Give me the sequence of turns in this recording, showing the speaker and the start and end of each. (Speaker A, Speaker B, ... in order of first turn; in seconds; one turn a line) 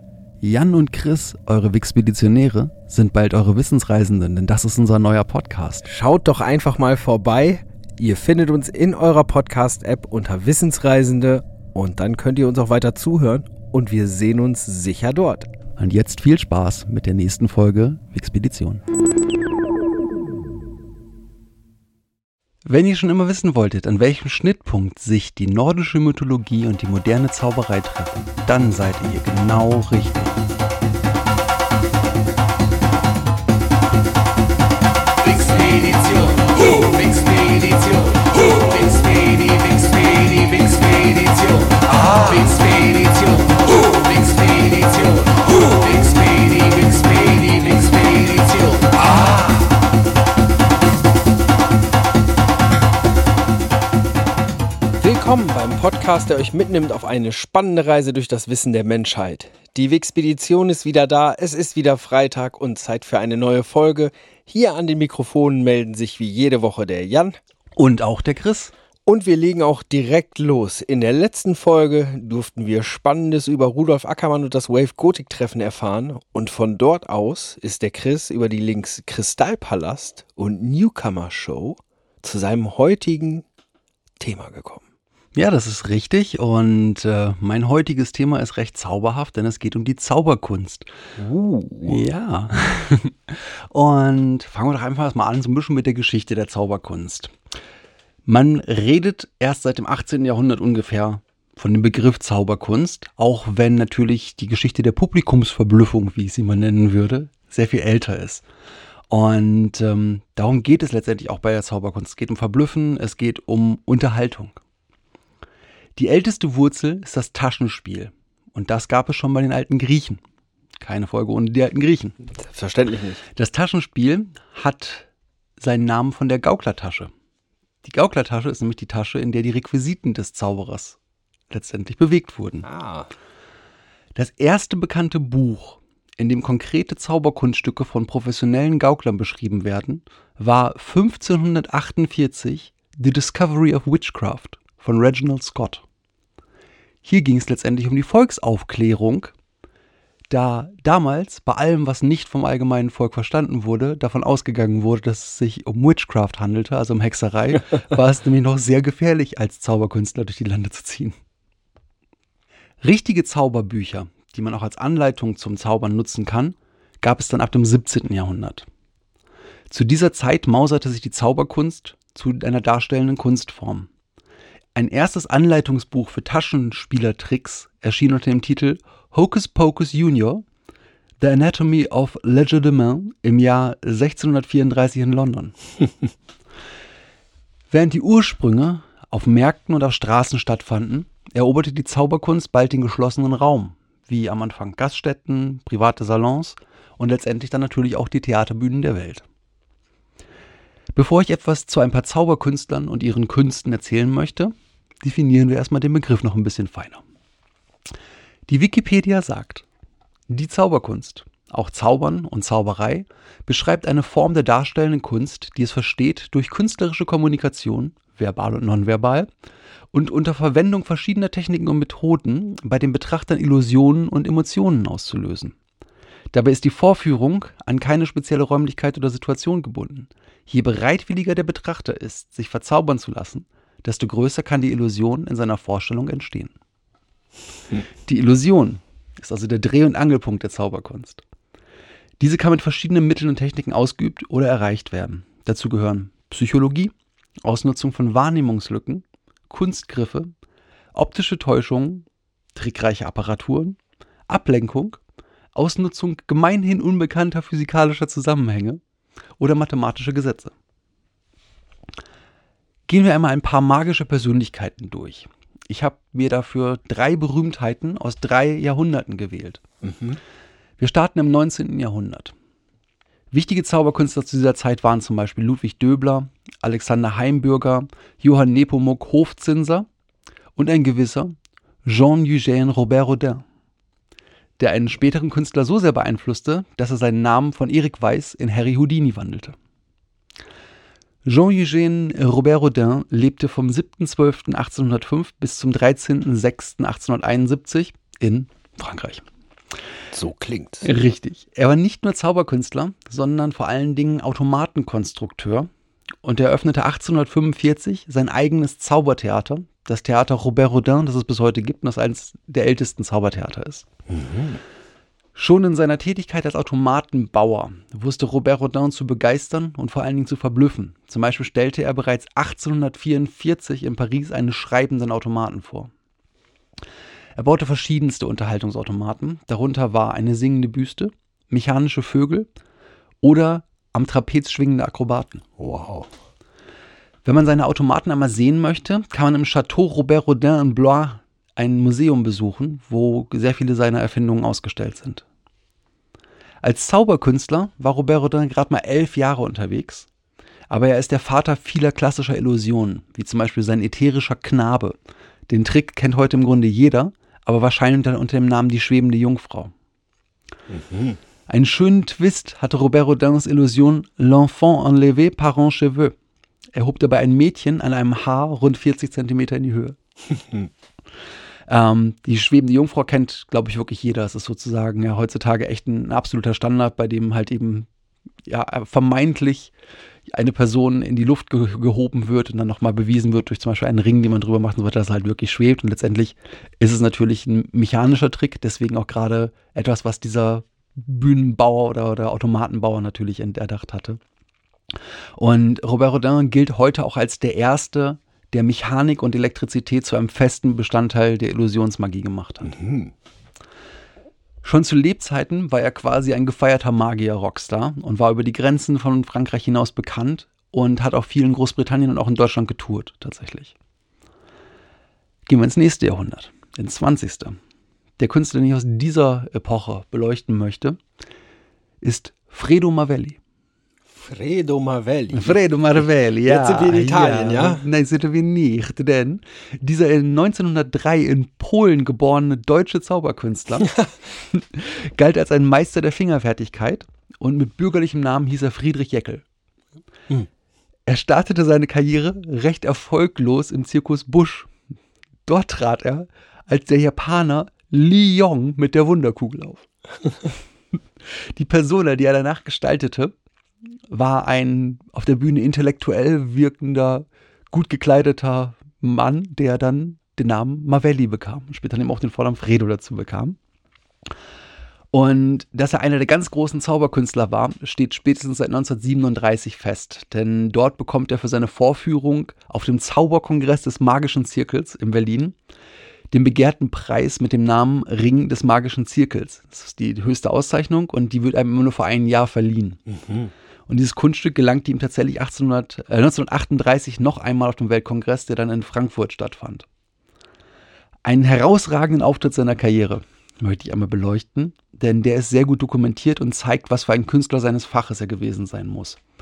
Speaker A: 0.4-5.9
Speaker B: 5.8-15.5
Speaker A: 15.8-18.8
Speaker A: 22.6-30.4
Speaker B: 35.4-49.2
Speaker B: 55.0-67.4
Speaker A: 67.8-68.7
Speaker B: 69.1-83.5
Speaker B: 84.2-84.8
Speaker A: 85.3-90.9
Speaker B: 91.2-92.0
Speaker A: 91.8-97.3
Speaker A: 98.3-108.5
Speaker A: 109.1-114.6
Speaker A: 116.0-120.2
Speaker A: 120.8-122.2
Speaker B: 122.3-123.2
Speaker A: 123.3-125.1
Speaker A: 125.6-127.1
Speaker A: 127.8-131.0
Speaker A: 131.5-132.7
Speaker B: 132.6-133.1
Speaker A: 134.2-145.8
Speaker A: 147.0-149.3
Speaker A: 150.3-161.2
Speaker A: 162.8-168.7
Speaker A: 169.7-173.9
Speaker A: 174.8-180.4
Speaker A: 181.2-185.6
Speaker A: 187.7-199.2
Speaker A: 200.9-207.0
Speaker A: 208.5-209.7
Speaker A: 210.3-219.3
Speaker A: 219.9-225.6
Speaker A: 226.3-236.5
Speaker A: 238.1-241.2
Speaker A: 242.2-246.9
Speaker A: 247.4-250.3
Speaker A: 250.9-255.0
Speaker A: 255.6-258.8
Speaker A: 259.4-260.5
Speaker A: 262.9-269.6
Speaker B: 269.8-270.2
Speaker A: 270.8-272.3
Speaker A: 273.3-279.9
Speaker A: 280.6-281.3
Speaker A: 281.9-283.4
Speaker A: 284.6-289.6
Speaker A: 291.2-299.2
Speaker B: 300.1-300.9
Speaker A: 300.8-305.7
Speaker A: 306.2-313.9
Speaker B: 314.1-314.6
Speaker A: 315.4-325.9
Speaker A: 327.4-332.5
Speaker A: 333.2-335.5
Speaker B: 335.6-336.1
Speaker A: 337.2-345.2
Speaker A: 346.6-350.1
Speaker A: 350.7-355.0
Speaker A: 355.5-359.7
Speaker B: 360.7-361.2
Speaker A: 361.5-366.1
Speaker A: 366.7-370.0
Speaker A: 371.7-377.9
Speaker A: 378.5-379.7
Speaker A: 380.3-394.2
Speaker A: 395.4-402.8
Speaker B: 402.7-403.1
Speaker A: 404.6-413.7
Speaker A: 415.5-417.6
Speaker A: 418.2-421.0
Speaker A: 422.0-423.4
Speaker B: 424.1-427.8
Speaker A: 425.3-434.0
Speaker A: 434.5-439.4
Speaker A: 441.1-444.7
Speaker A: 445.5-449.9
Speaker A: 451.6-453.3
Speaker A: 454.1-463.6
Speaker A: 465.1-475.6
Speaker A: 476.3-483.0
Speaker B: 483.1-483.5
Speaker A: 483.9-489.9
Speaker A: 491.2-499.2